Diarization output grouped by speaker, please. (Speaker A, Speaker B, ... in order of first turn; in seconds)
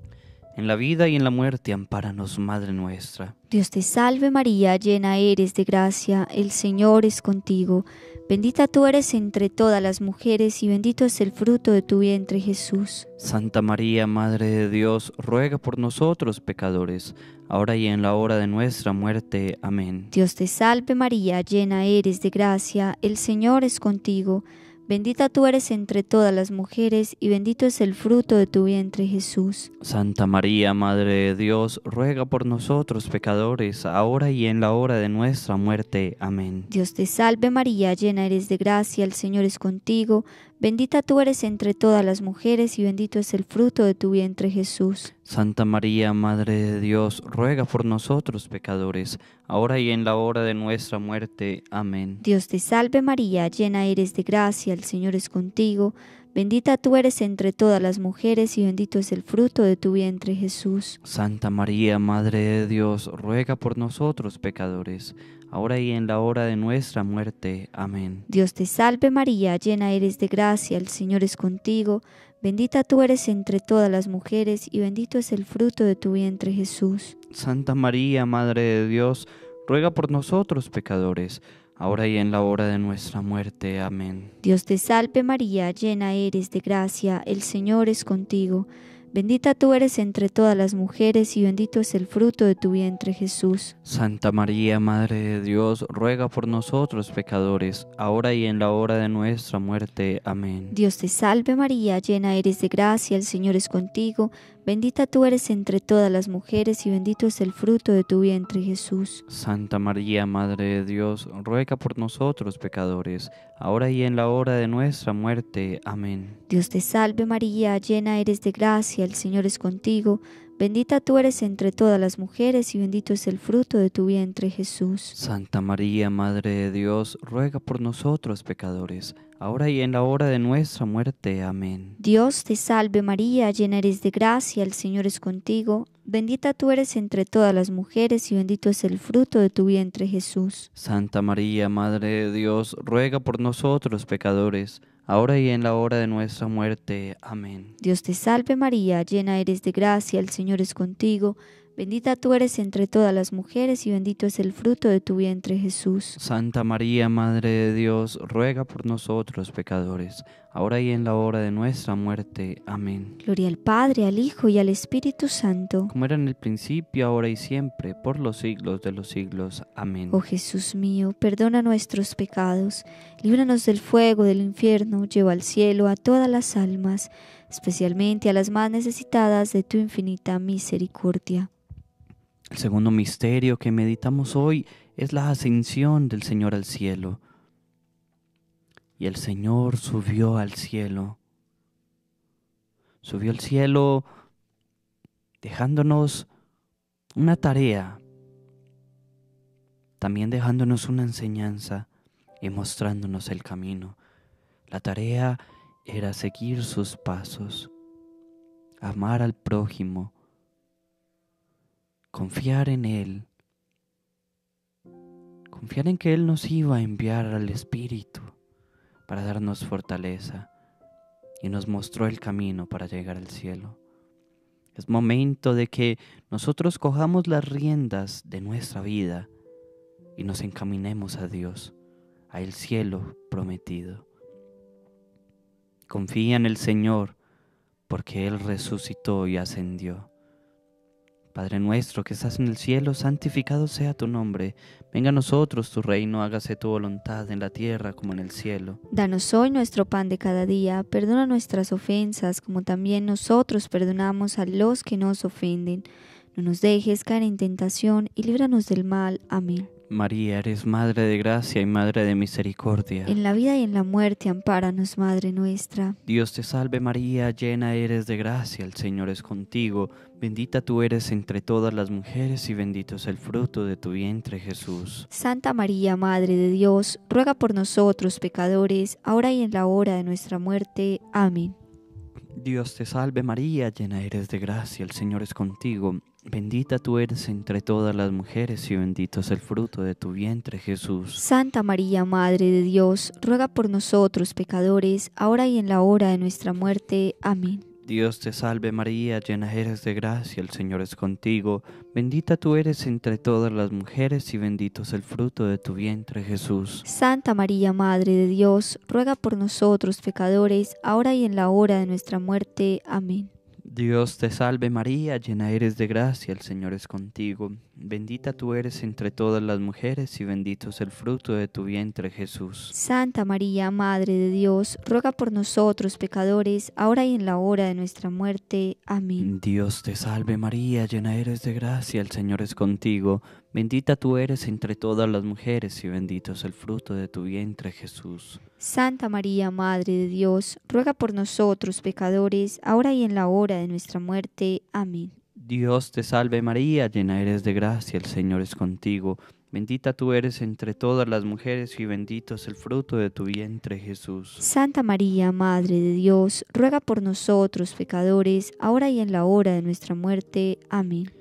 Speaker A: 0.6-3.4, 13.2-20.1, 29.8-36.7, 45.3-52.2, 61.0-68.3, 77.3-84.3, 93.8-100.8, 109.3-116.4, 125.2-132.0, 140.8-147.8, 156.2-163.2, 165.9-170.2, 182.5-187.2, 189.0-191.2, 193.0-194.1, 195.4-196.3, 197.1-198.0, 200.0-201.9, 202.4-204.0, 204.7-207.7, 208.8-210.1, 212.1-213.3, 215.5-218.3, 219.1-220.5, 221.4-223.8, 224.8-229.3, 230.2-231.7, 232.3-234.1, 235.9-237.2, 237.9-240.1, 241.3-248.8, 259.9-263.2, 266.1-275.1, 282.4-291.2, 297.8-306.9, 313.7-322.7, 329.2-338.4, 345.4-354.4
Speaker B: 3.5-13.1, 20.1-29.7, 36.7-45.1, 52.2-61.0, 68.3-77.2, 84.4-93.8, 100.7-109.2, 116.5-125.2, 132.0-140.7, 147.8-156.2, 163.2-165.9, 170.1-181.5, 248.9-259.7, 263.1-266.0, 275.1-281.6, 291.2-297.6, 306.9-313.3, 322.7-329.3, 338.6-345.1, 354.4-361.1